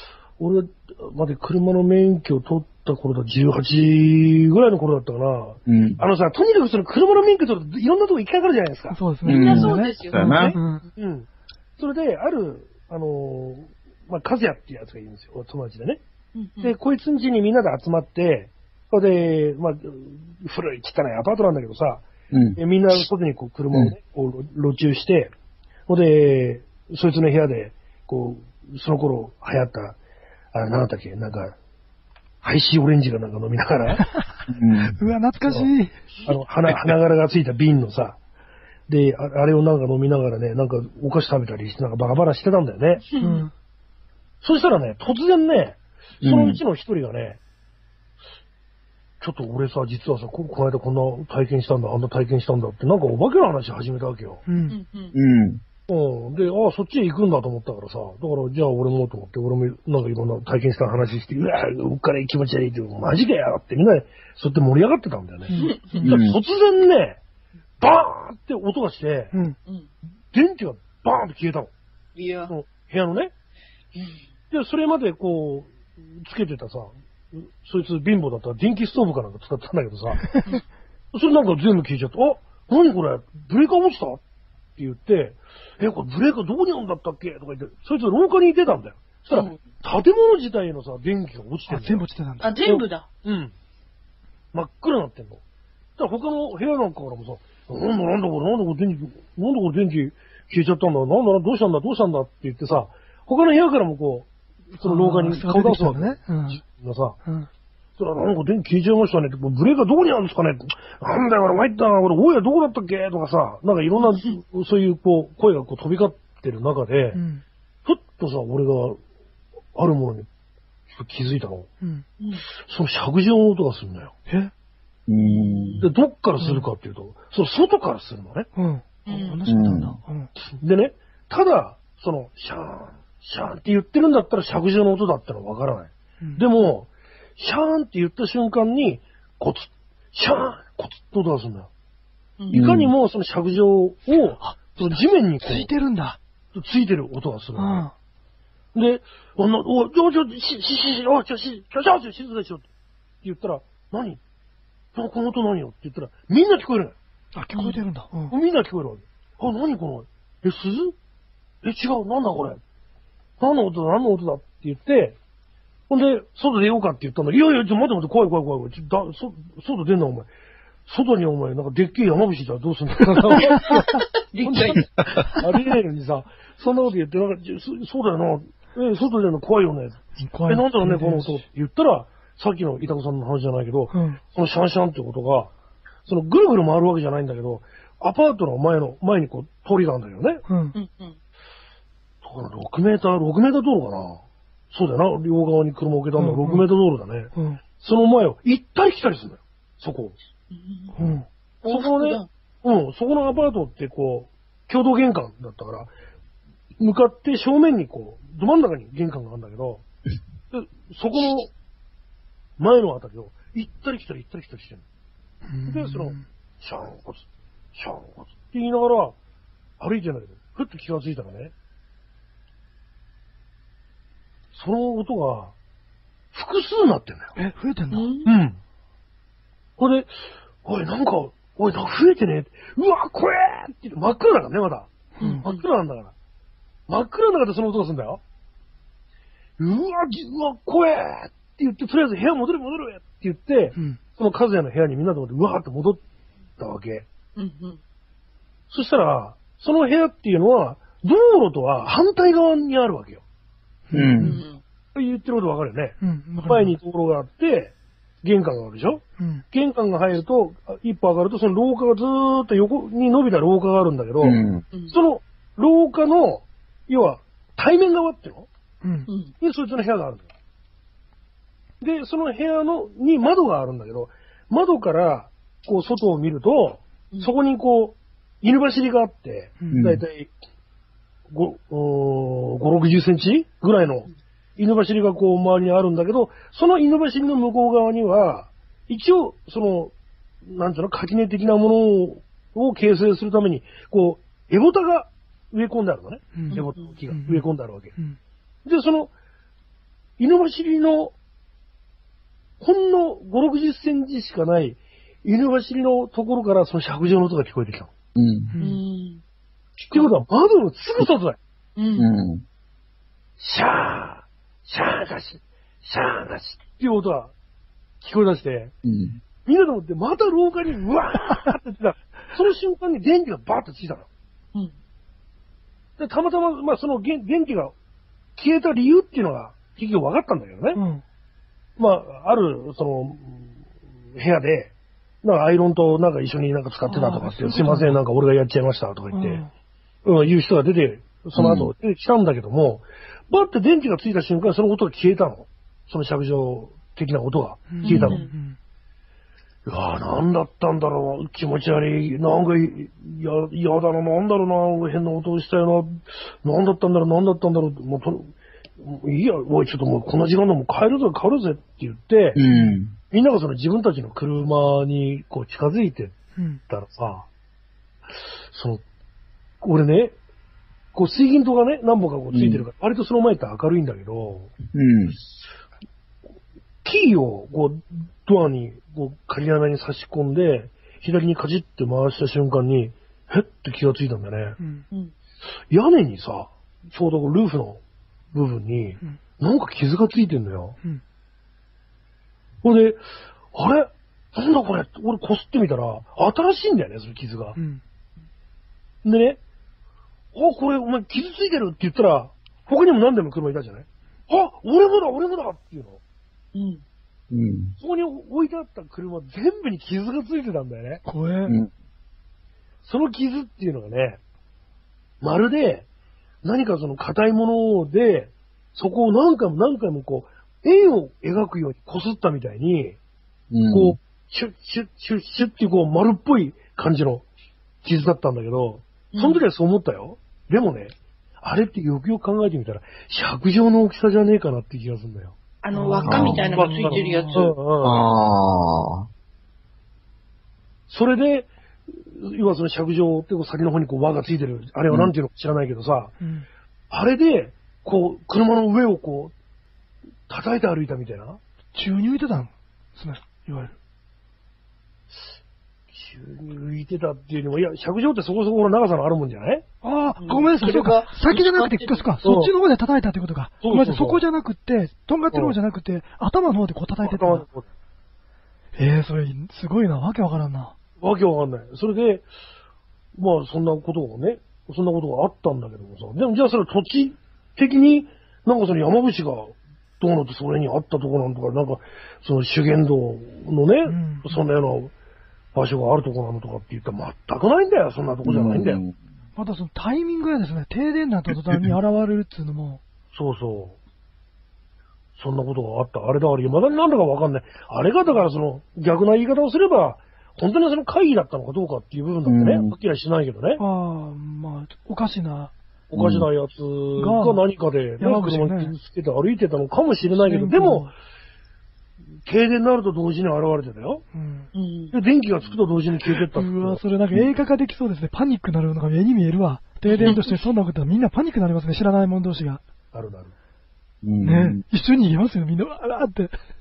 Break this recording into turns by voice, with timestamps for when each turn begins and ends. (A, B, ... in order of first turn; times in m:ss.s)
0:00.4-0:09.0 A
0:05.7-0:06.0 B
0:08.9-0:10.8 C
0:09.2-0:10.6 B
0:09.3-0:10.6 D
0:10.2-0:16.0 A
0:16.3-0:16.7 D
0:16.6-0:22.0 A
0:22.3-0:22.6 B
0:22.6-0:25.3 A
0:25.9-0:30.0 A
0:30.5-0:31.5 A
0:32.4-0:34.0 A
0:34.0-0:34.3 C
0:34.5-0:35.0 B
0:34.9-0:35.9 C
0:35.4-0:35.7 A
0:36.2-0:38.2 A
0:38.9-0:43.0 A
0:43.1-0:43.4 D
0:43.2-0:43.5 C
0:44.4-0:47.4 A
0:46.2-0:46.6 B
0:49.2-0:54.4 A
0:54.5-0:54.8 C
0:54.7-0:55.1 D
0:55.1-0:55.6 B
0:55.9-1:07.2 A
1:05.5-1:06.2 C
1:05.5-1:06.0 D
1:06.0-1:06.4 B
1:07.8-1:09.4 A
1:09.6-1:09.9 D
1:10.3-1:11.7 A
1:12.2-1:12.5 D
1:12.5-1:13.3 A
1:13.9-1:14.2 D
1:14.5-1:20.3 A
1:21.1-1:24.2 A
1:24.8-1:32.0 A
1:31.7-1:32.6 C
1:32.4-1:33.0 D
1:32.6-1:33.5 A
1:34.5-1:35.4 A
1:36.0-1:47.2 A
1:44.8-1:46.6 C
1:48.0-1:57.2 A
1:54.0-1:54.3 D
1:57.1-1:57.4 C
1:57.8-1:59.0 A
1:59.7-2:00.3 A
2:00.9-2:01.7 A
2:02.2-2:02.5 D
2:02.6-2:04.1 A
2:05.1-2:05.8 B
2:05.2-2:05.9 D
2:05.8-2:08.5 A
2:06.4-2:06.7 C
2:08.6-2:10.3 C
2:09.1-2:09.4 D
2:09.5-2:10.0 B
2:10.5-2:21.7 A
2:22.5-2:22.9 B
2:22.5-2:25.7 A
2:24.4-2:26.2 C
2:26.5-2:27.9 A
2:27.5-2:27.9 C
2:28.7-2:32.6 A
2:33.2-2:34.2 A
2:34.9-2:36.9 A
2:37.3-2:38.3 C
2:37.5-2:37.8 D
2:38.3-2:40.9 A
2:41.6-2:42.6 A
2:43.4-2:45.2 A
2:45.9-2:50.3 A
2:50.8-2:53.8 A
2:54.3-2:54.8 D
2:54.4-3:05.5 A
3:00.2-3:01.4 C
3:03.9-3:04.2 C
3:06.0-3:10.4 A
3:10.5-3:10.8 C
3:10.7-3:11.2 D
3:12.2-3:20.2 A
3:16.2-3:16.6 C
3:17.3-3:17.6 C
3:20.5-3:21.0 D
3:20.9-3:21.2 C
3:21.6-3:22.3 D
3:21.6-3:25.9 A
3:26.8-3:29.8 A
3:30.5-3:31.5 A
3:32.6-3:34.8 A
3:35.5-3:36.2 C
3:35.6-3:39.2 A
3:39.8-3:41.5 A
3:44.5-3:45.5 A
3:46.3-3:47.3 A
3:47.3-3:48.1 C
3:47.9-3:48.3 D
3:48.2-3:48.6 A
3:49.8-3:54.9 A
3:55.2-3:55.4 C
3:55.2-3:55.6 D
3:55.4-3:56.1 A
3:56.9-3:58.2 A
3:59.6-4:06.0 A
4:06.6-4:07.0 A
4:07.4-4:07.8 D
4:08.7-4:13.2 A
4:13.9-4:14.4 C
4:13.9-4:14.4 B
4:14.2-4:14.6 D
4:14.9-4:28.5 A
4:16.0-4:16.7 C
4:19.2-4:19.4 C
4:24.2-4:24.6 B
4:29.1-4:29.3 D
4:29.4-4:30.3 A
4:31.8-4:40.3 A
4:39.6-4:39.9 C
4:39.7-4:40.0 B
4:41.3-4:49.9 A
4:50.4-4:57.9 A
4:56.3-4:58.2 C
4:56.5-4:56.9 D
4:58.6-4:59.1 A
5:00.2-5:01.1 A
5:02.6-5:07.9 A
5:08.2-5:08.5 B
5:08.5-5:08.8 C
5:08.6-5:09.2 D
5:09.9-5:11.4 A
5:11.8-5:12.1 D
5:12.0-5:12.4 B
5:13.4-5:17.3 A
5:18.0-5:18.7 A
5:18.8-5:19.2 B
5:19.4-5:24.1 A
5:26.0-5:27.7 A
5:28.4-5:30.8 A
5:30.7-5:31.0 C
5:31.8-5:33.5 A
5:34.1-5:39.4 A
5:36.9-5:38.0 C
5:39.1-5:39.5 C
5:40.0-5:48.2 A
5:41.3-5:41.7 B
5:47.7-5:48.6 C
5:47.8-5:48.3 D
5:49.6-6:02.4 A
6:02.3-6:02.9 B
6:02.5-6:02.8 C
6:03.1-6:06.2 A
6:06.4-6:06.6 C
6:06.7-6:07.3 A
6:08.5-6:08.8 A
6:09.6-6:10.1 A
6:10.9-6:14.5 A
6:12.3-6:12.6 B
6:14.7-6:15.2 B
6:16.8-6:24.6 A
6:24.6-6:24.8 C
6:25.7-6:27.8 A
6:28.3-6:30.8 A
6:32.6-6:37.6 A
6:37.6-6:37.8 C
6:39.0-6:39.4 A
6:40.3-6:46.0 A
6:46.5-6:46.8 D
6:47.3-6:47.8 B
6:47.8-6:51.0 A
6:51.0-6:51.5 C
6:52.8-6:54.2 A
6:55.2-6:55.9 A
6:56.4-7:03.0 A
7:03.5-7:04.0 B
7:03.7-7:07.2 A
7:07.8-7:15.4 A
7:09.1-7:09.4 D
7:15.6-7:17.6 D
7:15.7-7:17.5 C
7:16.0-7:16.4 B
7:16.4-7:18.0 A
7:17.8-7:19.1 B
7:20.9-7:26.1 A
7:26.2-7:26.4 C
7:26.9-7:29.3 A
7:30.3-7:31.4 A
7:31.7-7:33.7 C
7:35.9-7:39.6 A
7:39.8-7:47.4 C
7:40.2-7:42.1 D
7:42.2-7:42.5 A
7:43.6-7:44.2 A
7:47.0-7:47.7 A
7:48.8-7:50.7 C
7:51.0-7:52.3 A
7:53.1-8:04.9 A
8:03.8-8:04.4 C
8:05.5-8:08.8 A
8:08.2-8:09.0 B
8:09.4-8:12.8 C
8:13.1-8:13.8 A
8:15.2-8:23.6 A
8:22.2-8:22.7 B
8:23.6-8:25.5 C
8:25.9-8:30.9 A
8:25.9-8:26.3 B
8:27.0-8:27.4 C
8:28.0-8:28.7 C
8:30.1-8:30.9 C
8:32.2-8:34.0 A
8:34.1-8:34.5 C
8:34.5-8:35.0 D
8:34.9-8:36.8 A
8:36.2-8:42.6 C
8:40.0-8:40.2 D
8:42.9-8:43.3 A
8:44.0-8:44.6 B
8:44.2-8:46.3 C